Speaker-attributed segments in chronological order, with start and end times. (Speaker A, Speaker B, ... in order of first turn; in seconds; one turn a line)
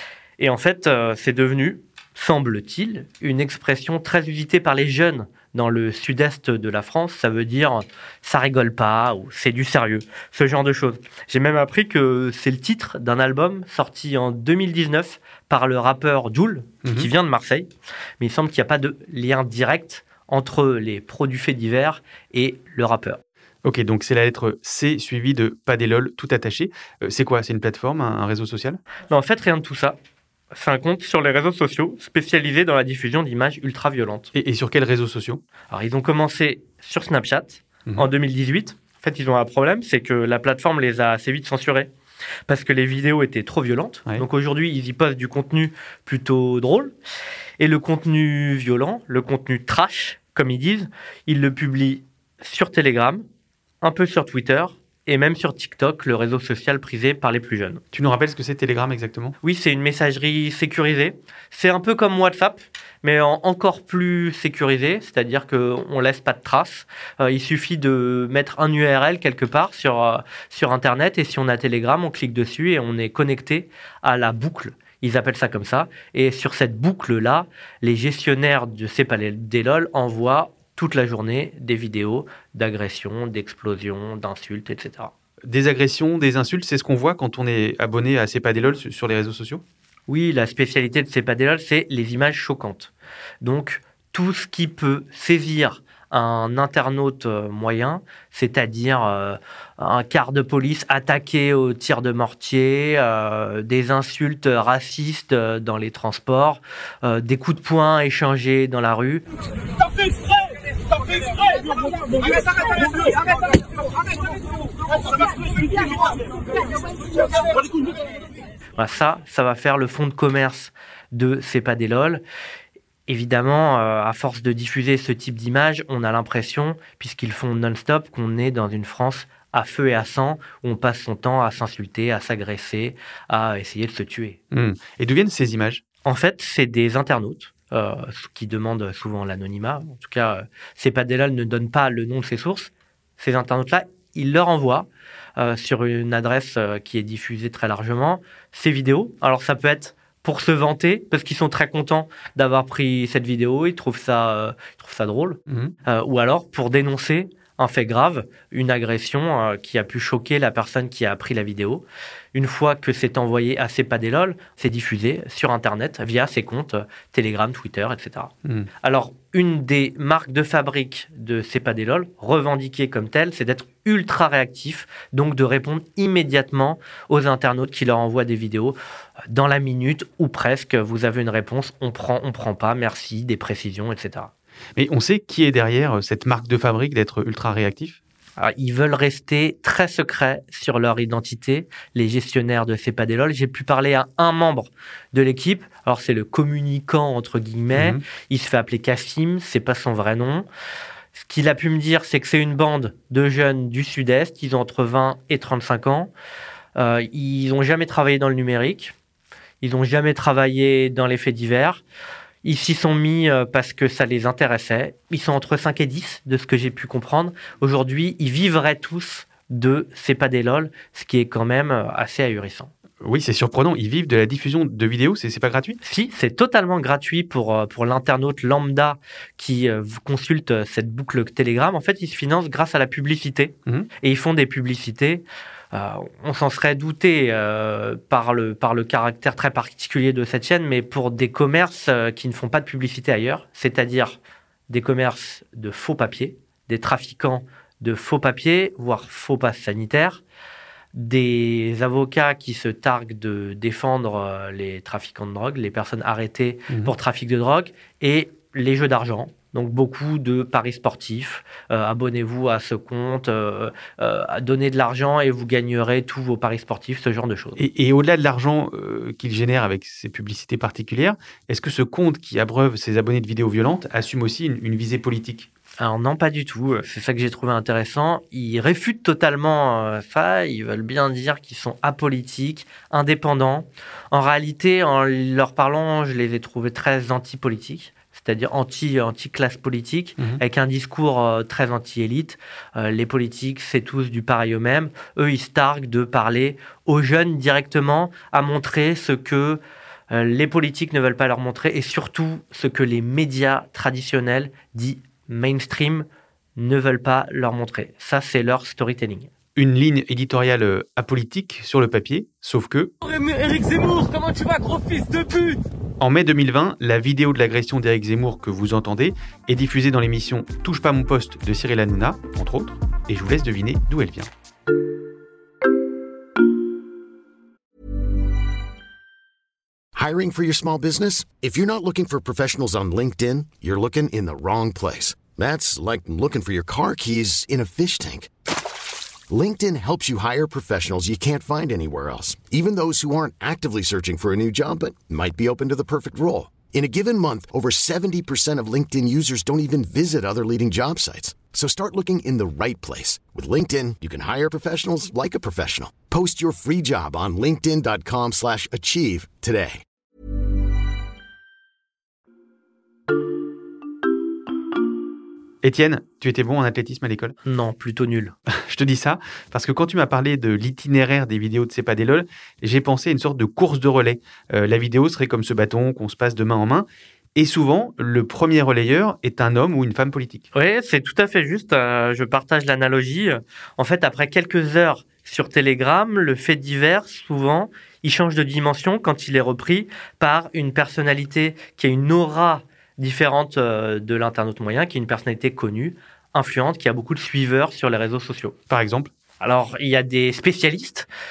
Speaker A: 0.4-23.2
Speaker B: 16.8-17.1
Speaker B: 23.6-28.8
Speaker A: 29.1-29.9
Speaker A: 30.5-34.3
Speaker B: 34.3-35.4
Speaker A: 35.7-41.9
Speaker A: 42.5-46.9
Speaker A: 47.6-53.2
Speaker A: 53.8-57.8
Speaker B: 57.9-59.4
Speaker A: 59.4-85.1
Speaker B: 85.5-89.6
Speaker A: 90.1-109.2
Speaker A: 118.8-122.2
Speaker A: 123.1-134.4
Speaker B: 134.5-135.8
Speaker A: 136.0-168.3
Speaker B: 155.5-155.7
Speaker A: 168.8-178.8
Speaker A: 179.3-184.3
Speaker B: 184.8-188.0
Speaker A: 188.4-200.5
Speaker B: 197.7-198.0
Speaker A: 201.1-206.1
Speaker A: 206.8-208.9
Speaker A: 209.6-211.8
Speaker A: 212.4-222.7
Speaker B: 223.0-225.8
Speaker A: 225.8-250.2
Speaker A: 250.9-267.6
Speaker B: 267.6-275.5
Speaker A: 275.8-309.3
Speaker B: 309.6-312.9
Speaker C: 313.0-315.6
Speaker B: 316.0-324.3
Speaker D: 329.9-338.3
Speaker D: 339.3-359.8
Speaker B: 365.6-367.3
Speaker A: 367.4-368.3
Speaker B: 368.5-380.4
Speaker A: 380.5-398.6
Speaker B: 398.7-399.1
Speaker A: 399.4-401.1